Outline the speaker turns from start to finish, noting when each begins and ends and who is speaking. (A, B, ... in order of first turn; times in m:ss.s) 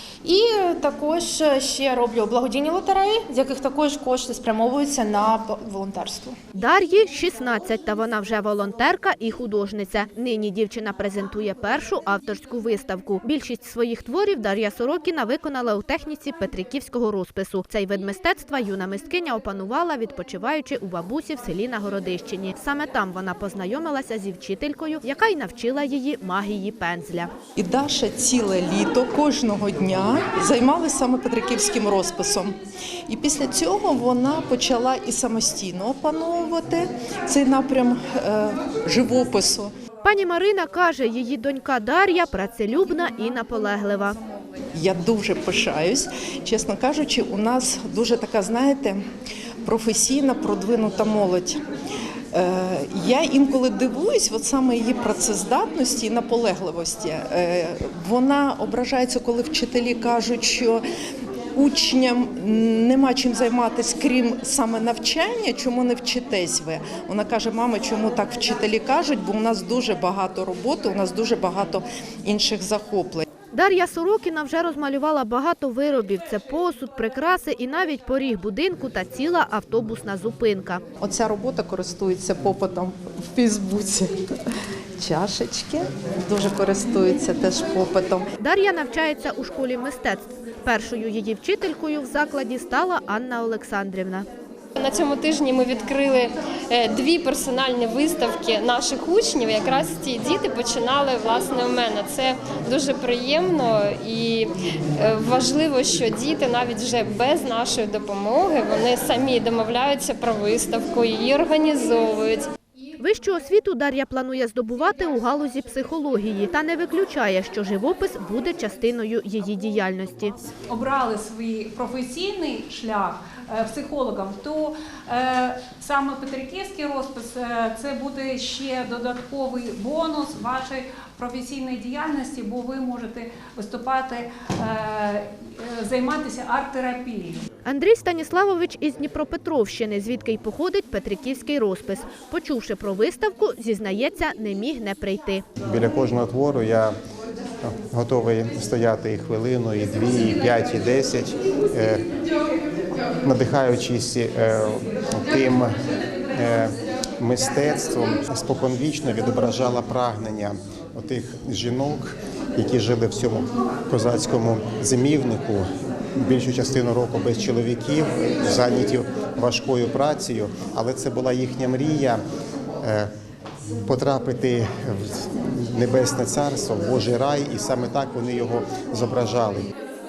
0:00.2-0:06.3 A
0:06.6-0:27.3 B
0:27.6-0:39.7 C
0:40.0-0:44.2 B
0:44.7-0:49.0 C
0:49.6-0:51.6 C
0:52.3-1:00.8 C
1:01.5-1:13.2 C
1:13.5-1:20.8 B
1:21.0-1:24.2 C
1:25.0-1:28.3 C
1:28.4-1:34.2 B
1:34.8-1:52.5 D
1:53.0-2:00.4 B
2:00.7-2:17.4 E
2:17.6-2:25.4 B
2:25.6-2:26.9 F
2:27.6-2:32.0 F
2:33.2-2:35.7 F
2:36.3-2:52.2 F
2:52.8-2:53.1 F
2:53.8-2:59.7 F